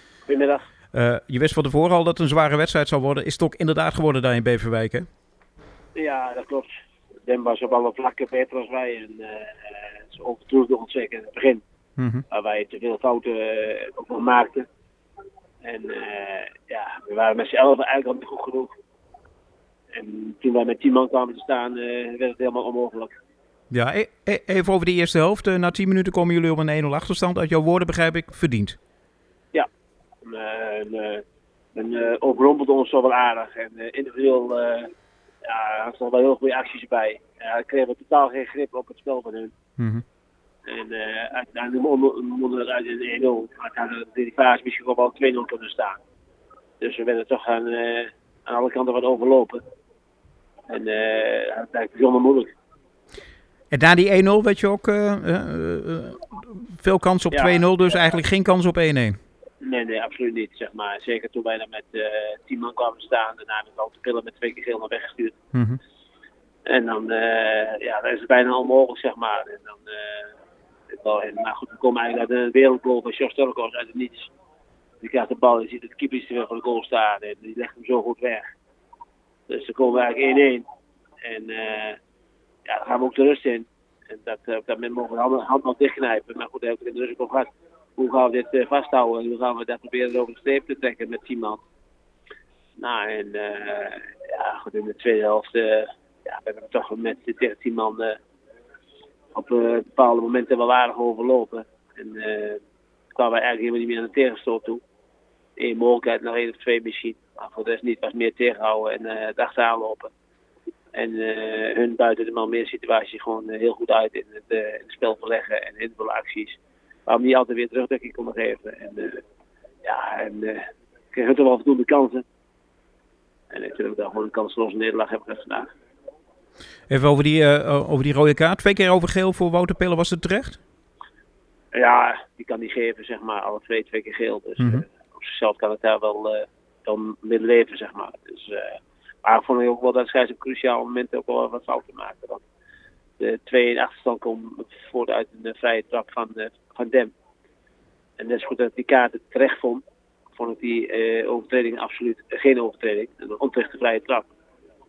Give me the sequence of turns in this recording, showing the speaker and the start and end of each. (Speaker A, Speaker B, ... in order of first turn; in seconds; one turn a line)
Speaker A: 0.3-0.7
Speaker B: 0.9-5.1
Speaker A: 5.9-6.7
Speaker A: 7.2-11.6
Speaker B: 12.0-12.2
Speaker A: 12.3-14.7
Speaker A: 15.6-18.7
Speaker A: 19.9-23.1
Speaker B: 23.7-28.8
Speaker A: 30.2-31.2
Speaker A: 31.7-34.9
Speaker A: 35.4-39.5
Speaker B: 39.8-40.0
Speaker A: 40.6-46.0
Speaker A: 46.8-49.6
Speaker A: 50.7-52.5
Speaker B: 53.7-59.2
Speaker A: 57.3-57.7
Speaker A: 59.6-65.3
Speaker B: 65.5-65.8
Speaker A: 66.7-70.3
Speaker A: 70.9-74.3
Speaker A: 75.0-78.5
Speaker A: 79.5-80.6
Speaker A: 81.2-82.0
Speaker A: 82.7-91.6
Speaker A: 92.8-98.2
Speaker A: 99.3-102.6
Speaker A: 103.1-104.8
Speaker A: 105.6-110.1
Speaker A: 110.9-119.2
Speaker A: 119.8-122.2
Speaker A: 123.5-125.7
Speaker B: 126.9-130.6
Speaker A: 131.7-142.4
Speaker A: 143.2-147.1
Speaker A: 148.2-149.8
Speaker A: 150.4-154.2